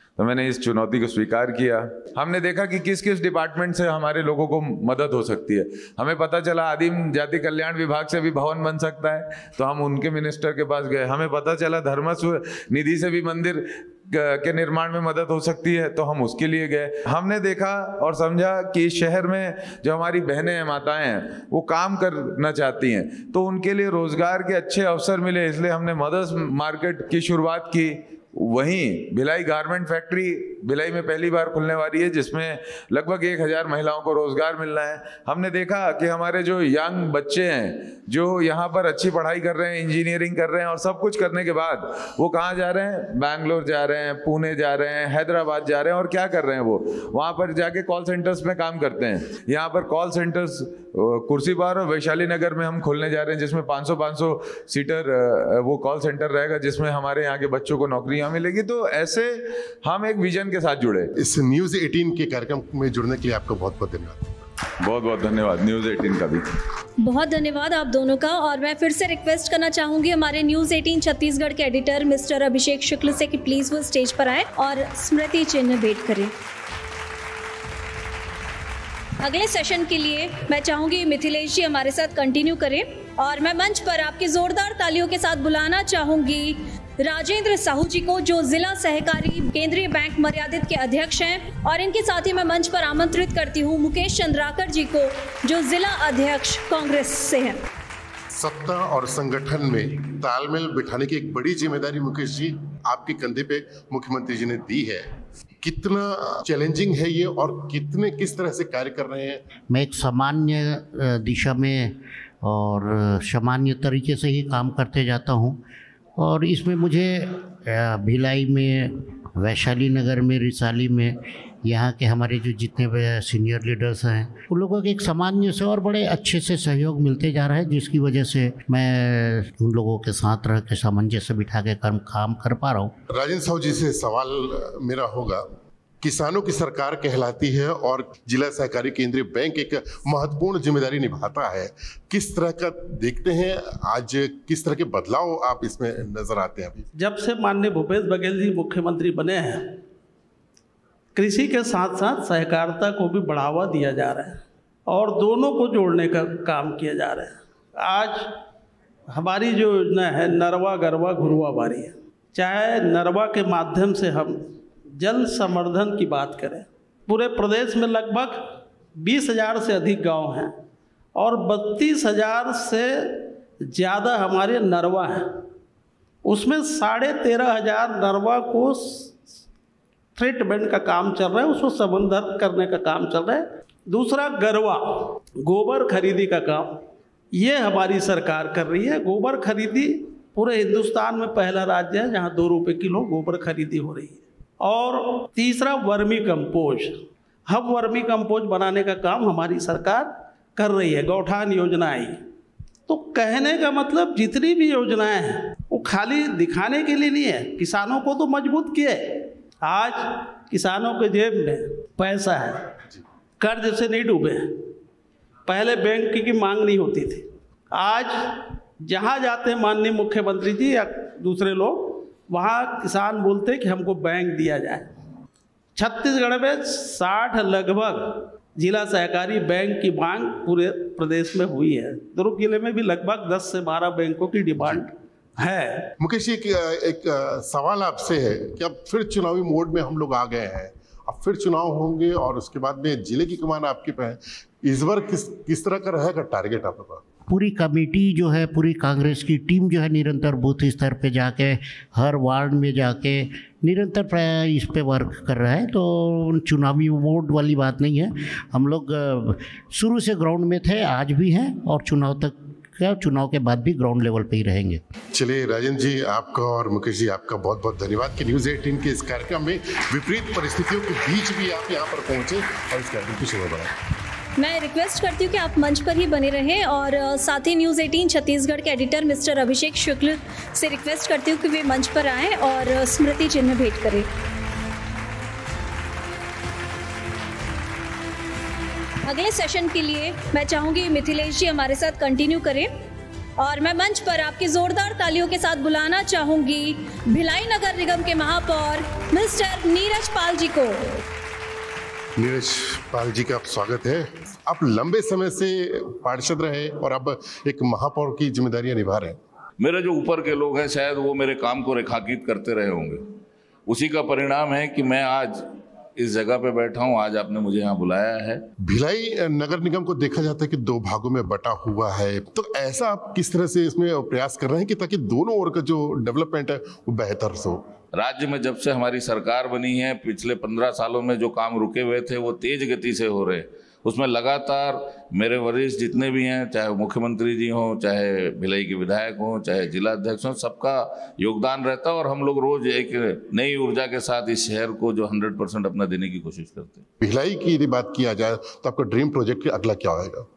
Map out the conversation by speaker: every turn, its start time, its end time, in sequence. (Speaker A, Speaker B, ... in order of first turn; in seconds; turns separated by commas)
Speaker A: 0.2-61.1, Speaker B: 61.2-64.4, Speaker A: 64.8-66.4, Speaker C: 67.0-76.3, Speaker C: 79.2-97.6, Speaker B: 98.3-105.1, Speaker B: 105.6-109.5, Speaker D: 109.6-115.6, Speaker D: 116.2-132.9, Speaker B: 133.1-135.5, Speaker B: 136.0-146.9, Speaker E: 146.9-149.8, Speaker E: 151.1-158.4, Speaker E: 159.1-170.6, Speaker E: 171.2-175.4, Speaker E: 176.2-179.2, Speaker E: 180.2-202.2, Speaker E: 202.9-212.7, Speaker E: 213.4-214.7, Speaker E: 215.4-224.9, Speaker E: 225.7-235.9, Speaker B: 236.0-247.0, Speaker D: 247.3-264.8, Speaker B: 265.1-273.7, Speaker C: 274.4-284.1, Speaker C: 289.0-292.7, Speaker C: 293.4-301.0, Speaker B: 302.2-309.2, Speaker F: 309.6-313.1, Speaker F: 313.7-318.5, Speaker B: 318.6-327.7, Speaker F: 327.9-346.8, Speaker B: 347.0-350.2